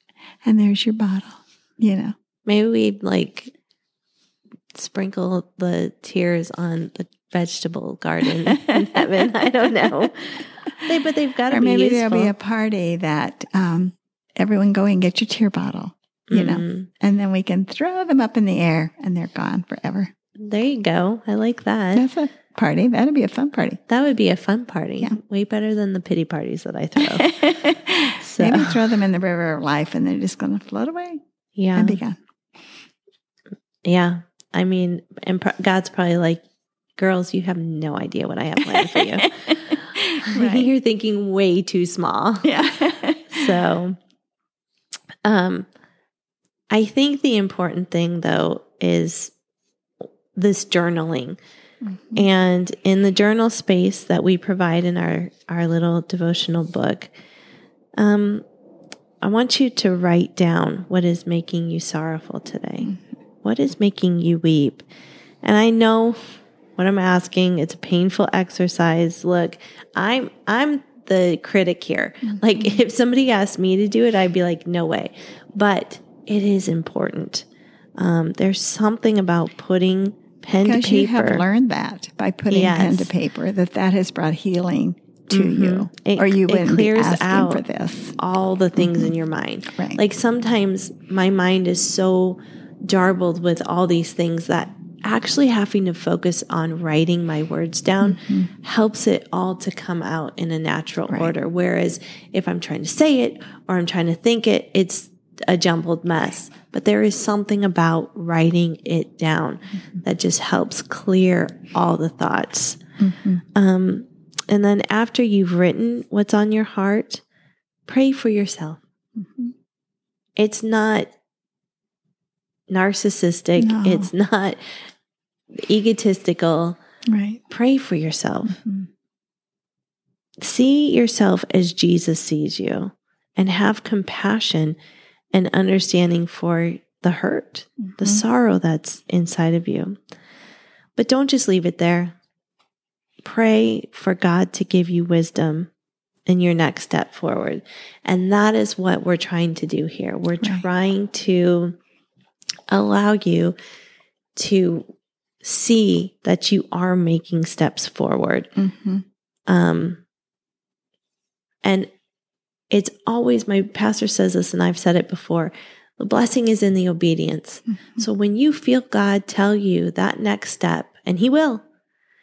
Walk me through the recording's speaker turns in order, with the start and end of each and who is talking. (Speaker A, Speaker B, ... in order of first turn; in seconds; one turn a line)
Speaker A: 0.4-2.1
Speaker B: 2.5-3.5
Speaker B: 4.7-12.3
Speaker A: 8.4-9.2
Speaker A: 11.5-20.1
Speaker B: 16.3-16.9
Speaker B: 20.4-22.1
Speaker A: 21.9-23.8
Speaker B: 23.9-28.9
Speaker A: 27.0-31.2
Speaker B: 31.6-32.0
Speaker A: 31.7-32.2
Speaker B: 33.8-36.4
Speaker B: 37.0-42.7
Speaker A: 38.6-40.7
Speaker A: 42.4-43.6
Speaker B: 43.3-44.0
Speaker B: 45.2-45.7
Speaker B: 46.7-49.3
Speaker B: 50.3-51.4
Speaker A: 51.8-52.3
Speaker B: 52.1-57.1
Speaker B: 58.0-58.4
Speaker B: 59.2-64.8
Speaker B: 65.4-66.2
Speaker B: 66.8-77.5
Speaker A: 72.2-72.8
Speaker B: 78.0-81.4
Speaker A: 80.6-88.1
Speaker B: 82.5-83.1
Speaker B: 85.3-87.6
Speaker B: 88.2-112.8
Speaker A: 88.8-89.1
Speaker A: 89.7-90.0
Speaker A: 98.0-98.5
Speaker A: 113.0-113.4
Speaker B: 113.5-117.2
Speaker B: 117.9-118.8
Speaker A: 119.2-119.5
Speaker B: 120.4-121.1
Speaker B: 122.7-124.6
Speaker A: 123.6-124.1
Speaker B: 125.5-126.8
Speaker A: 127.1-127.4
Speaker B: 127.5-128.6
Speaker A: 128.5-128.9
Speaker B: 130.4-134.8
Speaker B: 135.3-140.0
Speaker B: 140.9-142.2
Speaker B: 143.2-145.7
Speaker B: 146.3-151.8
Speaker B: 152.7-153.5
Speaker B: 154.3-154.8
Speaker B: 155.4-158.5
Speaker A: 158.6-159.0
Speaker B: 159.5-160.0
Speaker B: 161.6-161.9
Speaker B: 162.7-171.6